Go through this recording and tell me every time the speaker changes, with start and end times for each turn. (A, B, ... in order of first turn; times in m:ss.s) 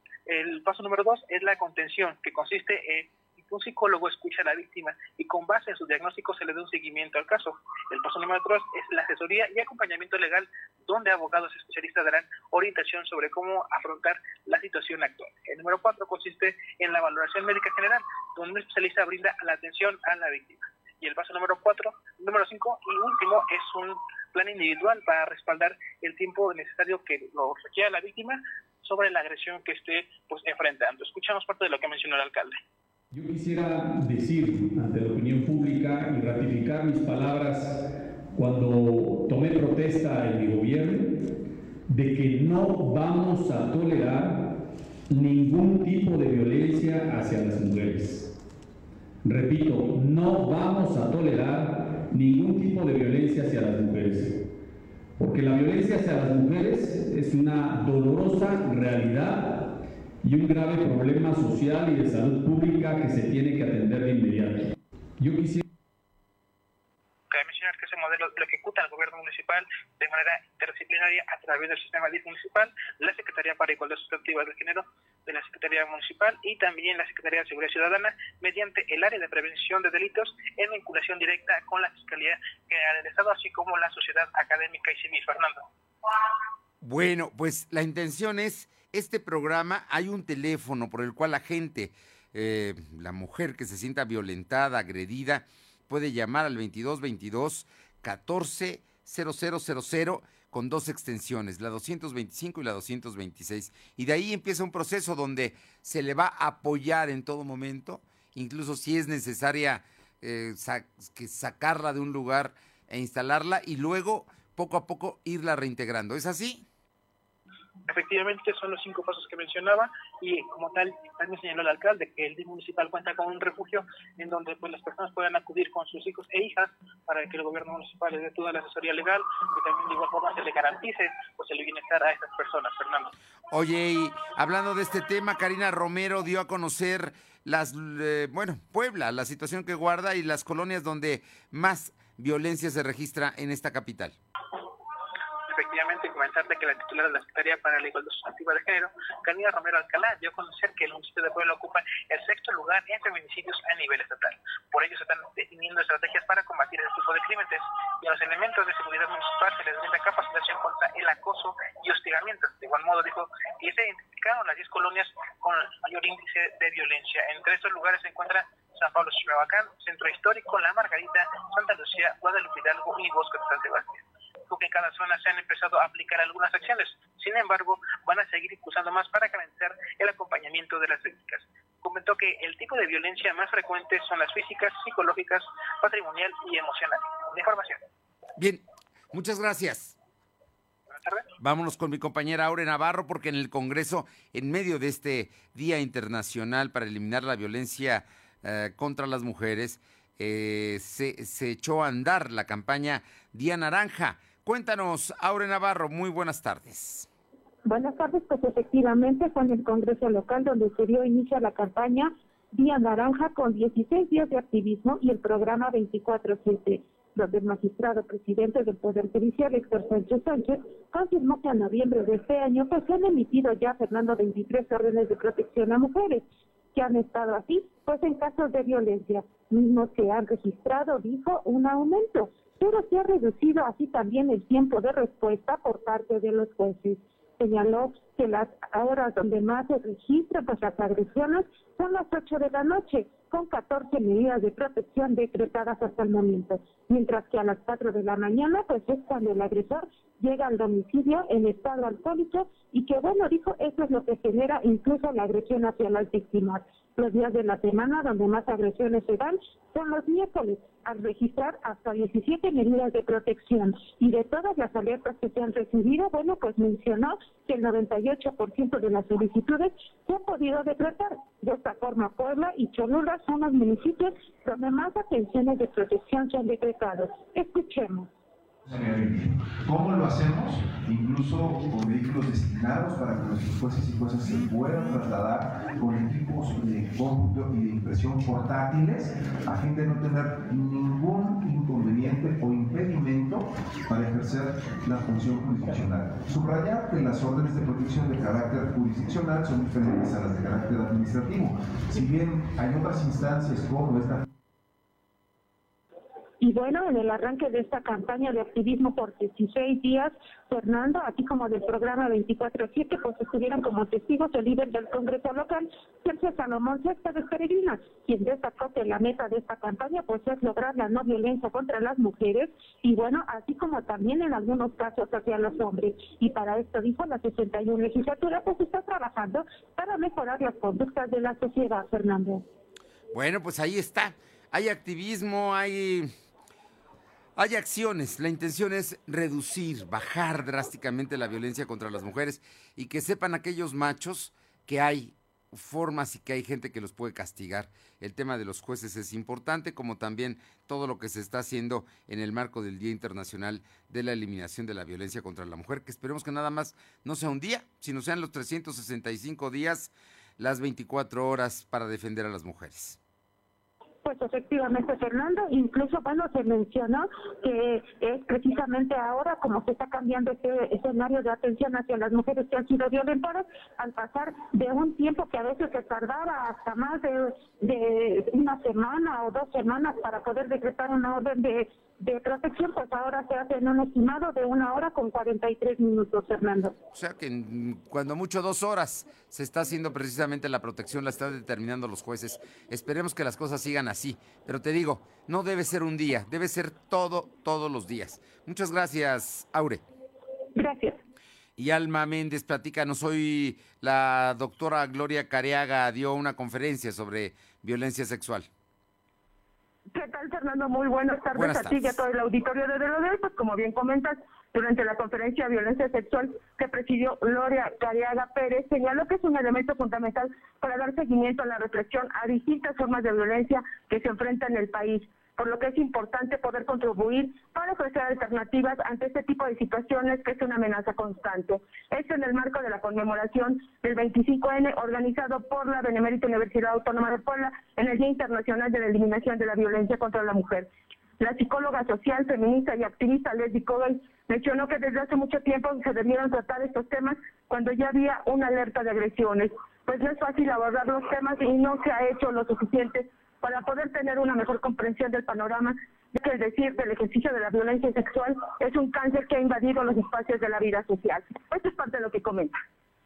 0:00.3-0:32.6 A
0:33.1-0:37.8 B
0:38.4-0:41.2 B
0:41.9-0:44.5 B
0:45.1-0:48.3 B
0:49.2-0:54.4 B
0:55.2-0:59.7 B
1:00.2-1:05.6 B
1:07.3-1:25.7 A
1:26.8-1:56.6 C
1:57.9-2:13.1 A
2:13.5-2:24.2 C
2:25.5-3:07.8 A
3:08.4-3:10.0 C
3:11.0-3:11.2 A
3:11.4-3:27.1 C
3:27.7-4:38.1 D
4:38.7-5:04.3 E
5:06.4-5:32.4 D
5:33.1-5:36.1 C
5:37.4-6:03.0 C
6:04.0-6:26.8 D
6:26.9-6:39.8 C
6:40.6-6:41.0 D
6:41.6-6:48.5 C
6:49.9-7:20.7 F
6:51.3-6:52.0 C
7:21.2-7:42.6 F